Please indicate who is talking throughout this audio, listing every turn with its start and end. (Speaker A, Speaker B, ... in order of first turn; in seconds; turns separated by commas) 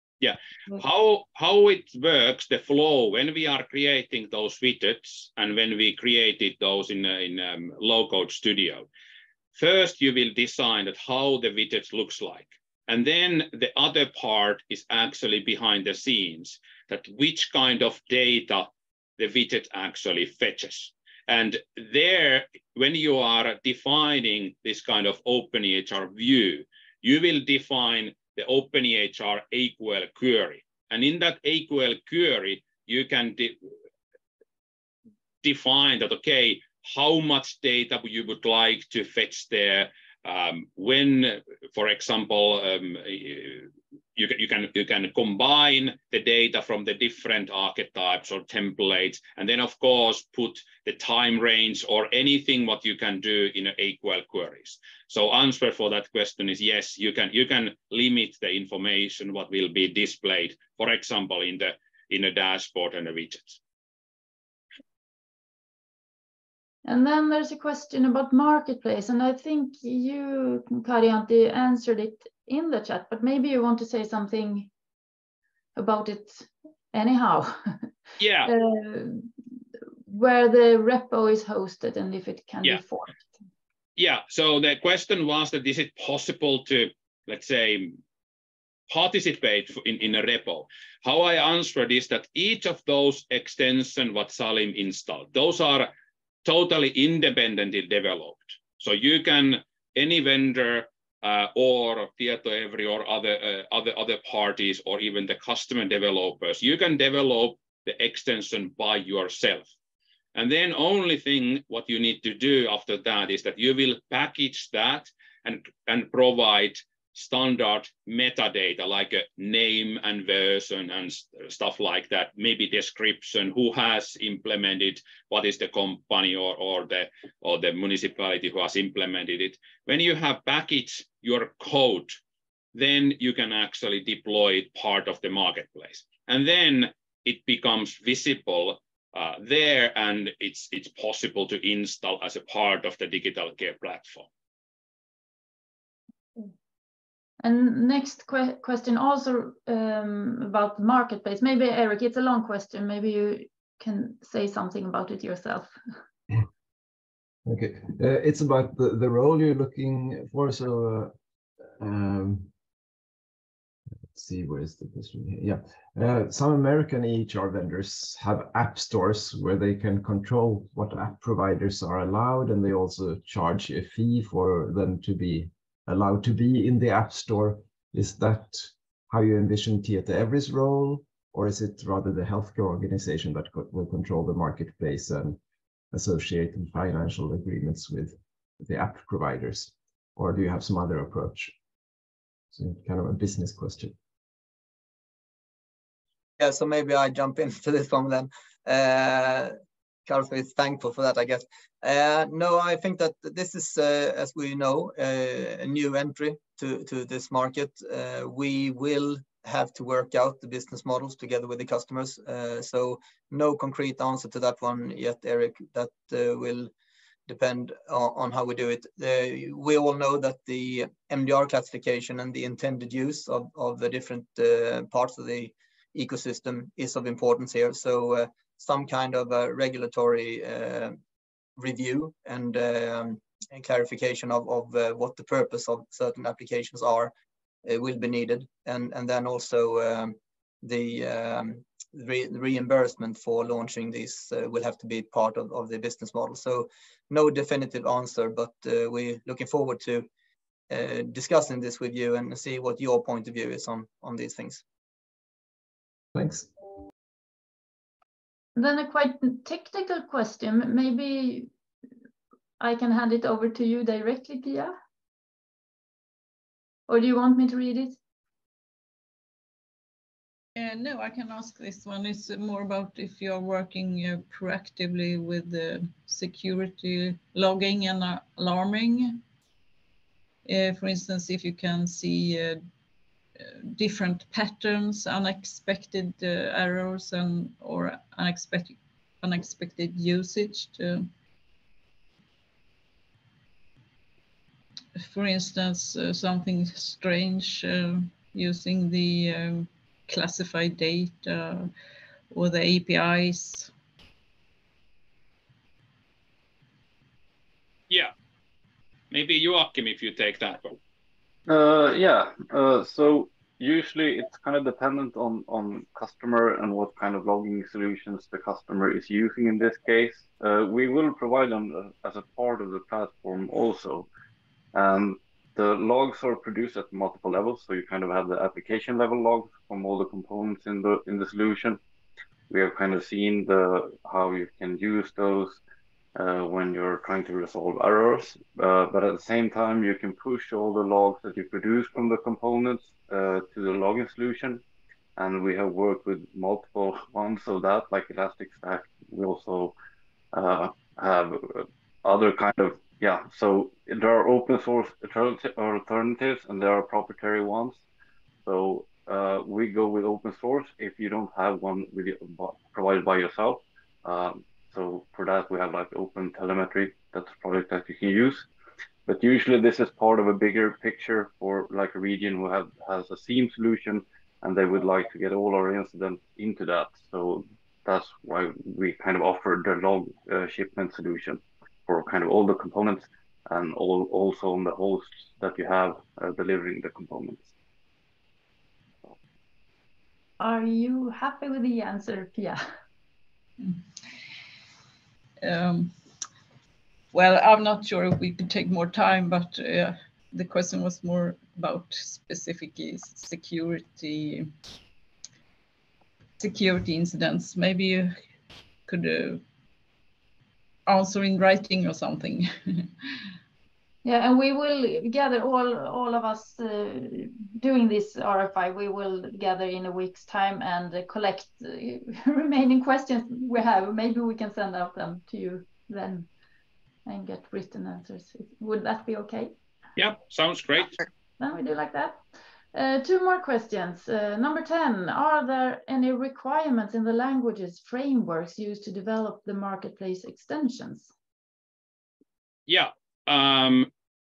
Speaker A: 0.2-8.9, Speaker A: 9.5-33.6, Speaker A: 35.4-63.6, Speaker B: 66.8-74.7, Speaker B: 75.8-77.8, Speaker A: 78.2-78.5, Speaker B: 78.4-79.3, Speaker B: 80.1-83.2, Speaker A: 84.0-88.0, Speaker A: 88.9-95.9, Speaker A: 96.4-109.7, Speaker A: 110.3-132.2, Speaker A: 132.7-144.3, Speaker B: 147.4-155.7, Speaker C: 157.4-161.1, Speaker C: 161.8-162.5, Speaker C: 164.1-185.4, Speaker C: 185.9-191.5, Speaker C: 192.5-193.9, Speaker D: 196.4-199.5, Speaker D: 200.1-216.7, Speaker D: 217.3-231.0, Speaker D: 231.6-237.1, Speaker D: 237.6-250.1, Speaker D: 250.7-254.6, Speaker C: 256.1-256.5, Speaker B: 258.6-261.5, Speaker B: 262.6-264.7, Speaker B: 266.9-268.0, Speaker E: 270.6-279.2, Speaker E: 280.4-282.6, Speaker E: 283.4-291.1, Speaker E: 295.0-301.7, Speaker E: 302.3-303.7, Speaker A: 309.1-310.8, Speaker F: 311.4-324.1, Speaker F: 324.7-331.8, Speaker F: 332.5-335.6, Speaker F: 336.1-344.6, Speaker F: 345.2-349.7, Speaker F: 350.3-357.8, Speaker F: 358.4-368.5, Speaker F: 369.1-387.5, Speaker B: 390.4-392.6, Speaker E: 395.4-395.9, Speaker E: 397.1-404.5, Speaker E: 406.4-408.1, Speaker E: 408.9-409.4, Speaker E: 410.9-412.9, Speaker B: 414.0-426.3, Speaker B: 427.1-429.5, Speaker A: 429.9-431.0, Speaker B: 431.4-432.2, Speaker B: 432.7-441.1, Speaker A: 442.7-443.9